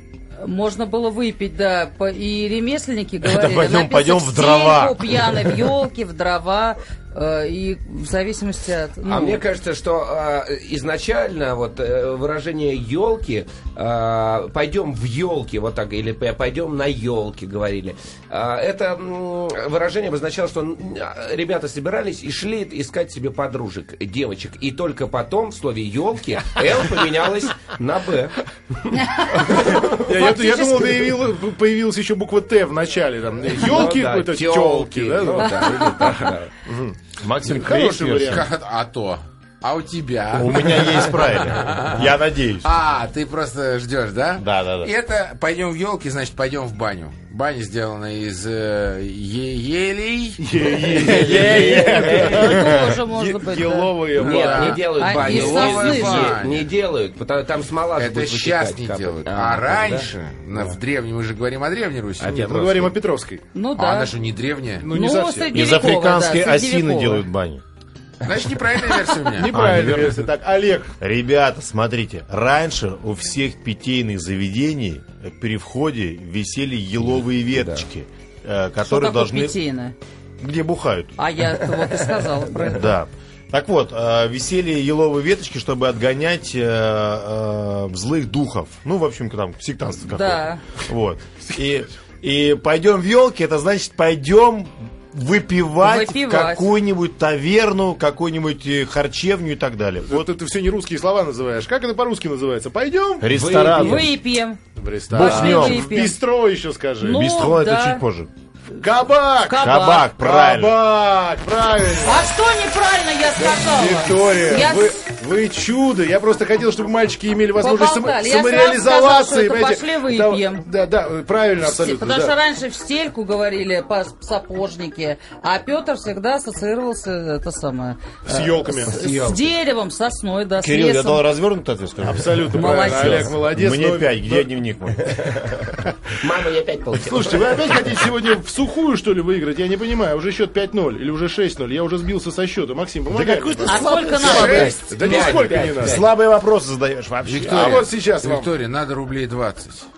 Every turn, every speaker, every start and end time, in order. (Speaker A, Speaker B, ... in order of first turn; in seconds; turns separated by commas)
Speaker A: 0.4-9.4, Speaker B: 3.2-5.8, Speaker C: 9.0-29.0, Speaker A: 28.9-31.2, Speaker D: 29.4-38.5, Speaker C: 33.5-36.5, Speaker E: 35.4-36.1, Speaker B: 37.2-38.5, Speaker E: 38.3-42.1, Speaker B: 40.3-42.7, Speaker E: 42.6-50.4, Speaker B: 44.4-44.9, Speaker D: 50.4-55.0, Speaker B: 51.0-52.9, Speaker C: 51.0-52.5, Speaker E: 51.1-51.8, Speaker A: 51.8-54.1, Speaker E: 54.1-56.7, Speaker C: 54.2-60.1, Speaker A: 54.9-56.4, Speaker E: 58.0-62.4, Speaker C: 62.2-62.9, Speaker D: 62.2-63.4, Speaker A: 63.5-64.1, Speaker E: 63.8-64.9, Speaker D: 64.8-65.6, Speaker A: 64.9-67.2, Speaker B: 65.5-67.6, Speaker E: 68.2-69.5, Speaker D: 69.3-70.9, Speaker B: 69.5-70.2, Speaker B: 71.0-79.6, Speaker C: 77.5-77.8, Speaker A: 78.8-79.9, Speaker B: 80.4-81.2, Speaker A: 81.2-82.9, Speaker B: 82.6-100.3, Speaker A: 90.1-90.6, Speaker A: 95.8-96.7, Speaker D: 100.0-103.3, Speaker B: 103.2-104.1, Speaker C: 103.3-104.1, Speaker A: 103.7-104.6, Speaker D: 104.8-107.3, Speaker B: 105.1-106.1, Speaker A: 105.1-106.1, Speaker A: 107.0-108.0, Speaker B: 107.0-108.3, Speaker D: 108.8-112.3, Speaker A: 109.5-110.1, Speaker B: 109.6-110.8, Speaker A: 112.0-115.0, Speaker D: 113.4-122.3, Speaker A: 117.6-120.6, Speaker A: 121.6-131.2, Speaker D: 128.2-129.0, Speaker C: 128.9-129.5, Speaker B: 130.6-135.4, Speaker D: 132.0-134.5, Speaker A: 132.5-133.3, Speaker C: 136.2-137.8, Speaker D: 137.0-146.0, Speaker B: 143.1-144.7, Speaker A: 143.6-145.3, Speaker C: 144.2-146.1, Speaker E: 144.2-144.7, Speaker B: 145.8-147.9, Speaker E: 147.2-149.9, Speaker D: 147.4-148.5